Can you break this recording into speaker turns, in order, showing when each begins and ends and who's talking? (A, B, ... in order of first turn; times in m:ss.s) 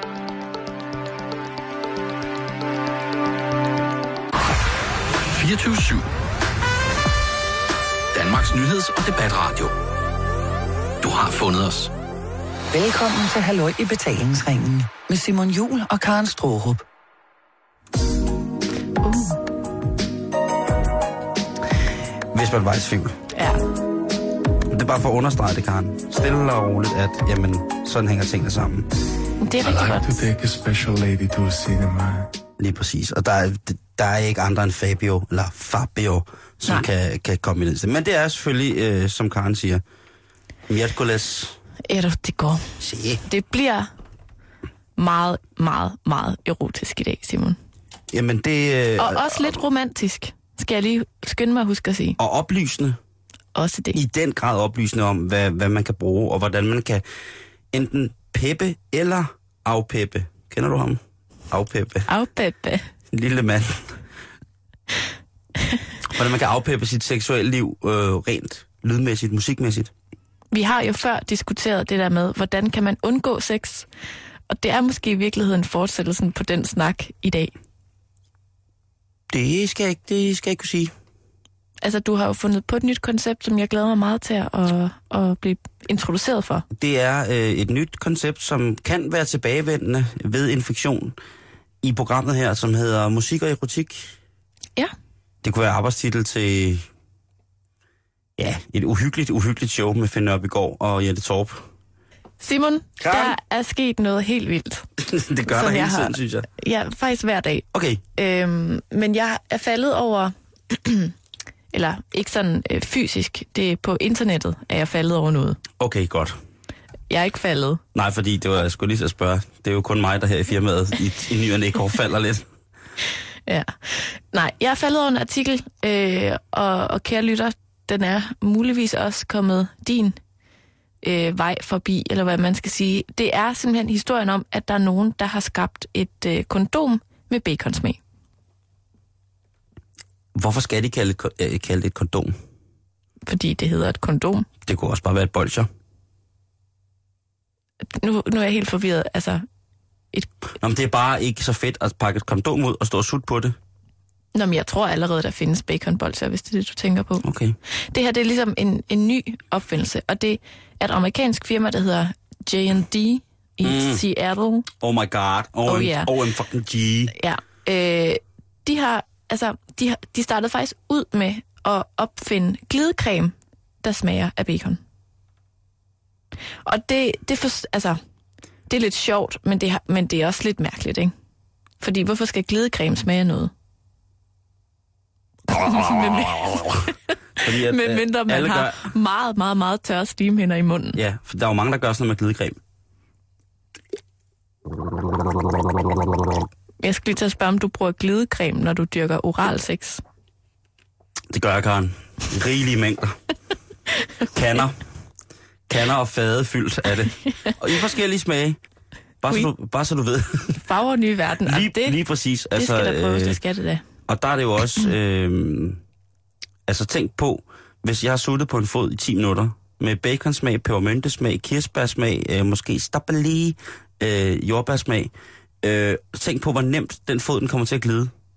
0:05.3-0:06.1 A
0:08.1-0:09.7 A
0:11.0-0:11.9 A
0:12.7-0:16.8 B
0:19.0-0:19.4 C
0:22.3-0:23.2 D
0:23.3-0:23.6 C
0:24.7-0:28.9 D
0:29.4-0:30.1 C
0:29.6-0:32.3 E
0:32.6-0:39.8 D
0:40.7-0:41.6 D
0:41.8-0:42.6 C
0:42.8-0:43.2 D
0:43.2-0:43.9 C
0:45.0-0:47.6 C
0:48.1-0:49.6 D
0:49.0-0:52.2 C
0:52.2-0:53.0 D
0:53.6-0:54.0 C
0:53.9-0:57.0 D
0:57.7-1:01.0 D
1:01.5-1:02.1 D
1:02.1-1:02.9 C
1:03.1-1:04.0 D
1:06.1-1:09.9 D
1:10.5-1:13.9 C
1:14.5-1:17.5 C
1:19.3-1:20.9 D
1:21.8-1:26.6 C
1:26.7-1:31.2 D
1:31.8-1:34.1 D
1:35.4-1:36.9 D
1:38.4-1:41.6 D
1:42.4-1:44.9 C
1:43.0-1:43.4 D
1:45.0-1:46.5 D
1:45.5-1:51.1 C
1:47.7-1:48.0 D
1:51.7-1:55.6 C
1:55.8-1:56.4 D
1:57.1-1:57.8 C
1:58.0-2:02.5 D
2:03.5-2:10.2 C
2:11.0-2:18.0 C
2:20.4-2:22.4 D
2:23.3-2:24.5 C
2:24.7-2:25.7 D
2:28.0-2:29.4 C
2:30.6-2:33.6 D
2:34.4-2:37.2 C
2:37.2-2:37.6 D
2:37.9-2:44.7 C
2:43.6-2:44.0 D
2:44.8-2:47.1 D
2:45.7-2:46.1 C
2:47.1-2:54.8 C
2:56.6-2:58.0 C
2:58.7-3:01.1 C
3:01.8-3:03.5 C
3:05.5-3:06.9 D
3:05.5-3:11.0 C
3:07.4-3:08.9 D
3:11.0-3:12.6 D
3:16.8-3:20.0 C
3:21.3-3:23.2 D
3:24.3-3:24.8 D
3:25.7-3:28.6 D
3:29.2-3:30.6 D
3:30.6-3:32.0 C
3:31.5-3:33.4 D
3:32.6-3:33.8 C
3:34.1-3:35.8 D
3:36.7-3:45.1 D
3:45.6-3:48.1 D